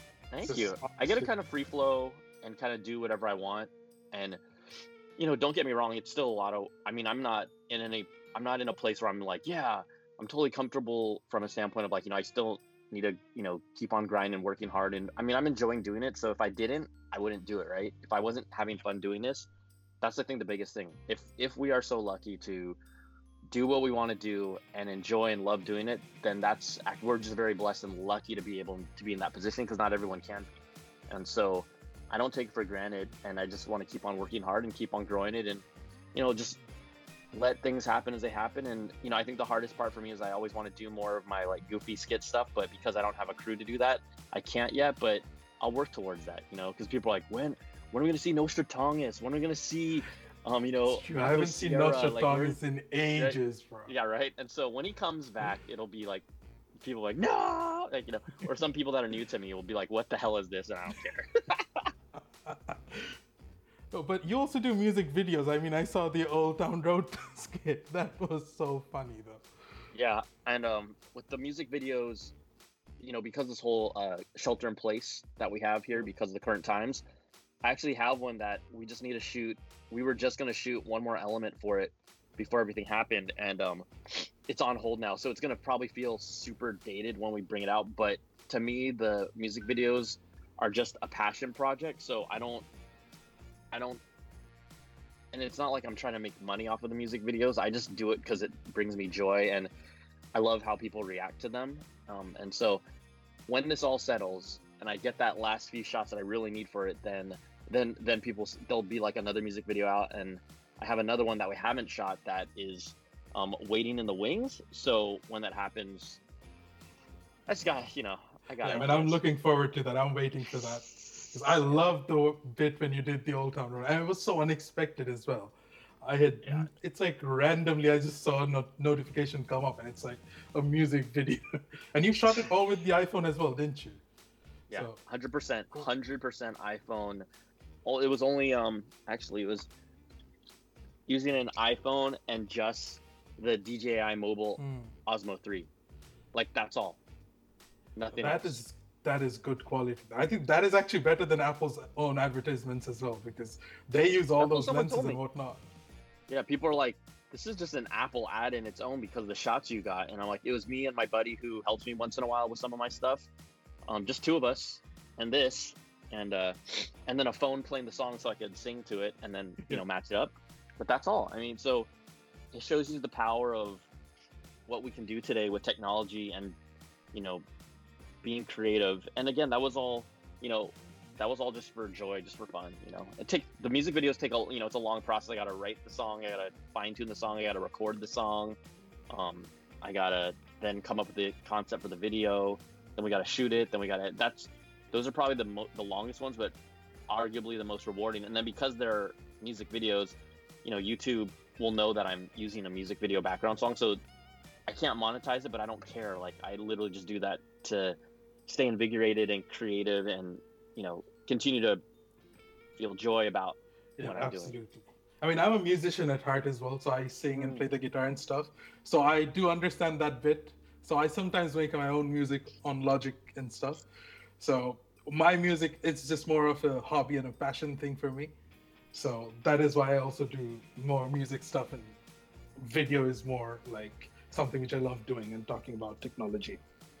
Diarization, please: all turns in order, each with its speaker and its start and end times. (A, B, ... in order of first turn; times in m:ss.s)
0:00.3-0:04.4 A
0:05.2-0:19.5 A
0:20.0-0:22.8 A
0:23.5-0:30.5 A
0:31.1-0:36.6 A
0:37.3-0:52.6 A
0:50.8-0:53.9 B
0:53.1-0:56.2 A
0:56.8-1:01.9 A
1:02.4-1:03.1 B
1:03.9-1:09.4 B
1:09.9-1:12.3 A
1:13.0-1:17.0 A
1:17.6-1:32.6 A
1:33.7-1:34.0 A
1:35.3-1:39.7 A
1:40.3-1:42.8 A
1:43.5-1:56.2 A
1:57.5-1:59.2 A
1:58.6-2:11.4 B
2:11.9-2:14.0 B
2:14.7-2:17.2 A
2:14.7-2:15.0 B
2:17.8-2:19.7 A
2:21.1-2:25.7 A
2:24.6-2:24.9 B
2:26.3-2:27.0 A
2:27.9-2:28.6 A
2:28.1-2:35.6 B
2:34.4-2:35.2 A
2:36.3-2:43.3 A
2:43.9-2:51.9 A
2:52.5-2:53.9 A
2:54.7-2:56.6 A
2:57.1-2:57.4 A
2:58.2-3:08.6 A
3:09.1-3:16.5 A
3:17.1-3:24.0 A
3:24.7-3:31.8 A
3:32.8-3:34.5 A
3:34.0-3:43.8 B
3:37.3-3:37.6 A
3:44.4-3:48.3 B
3:48.9-3:52.0 B
3:52.6-3:56.6 B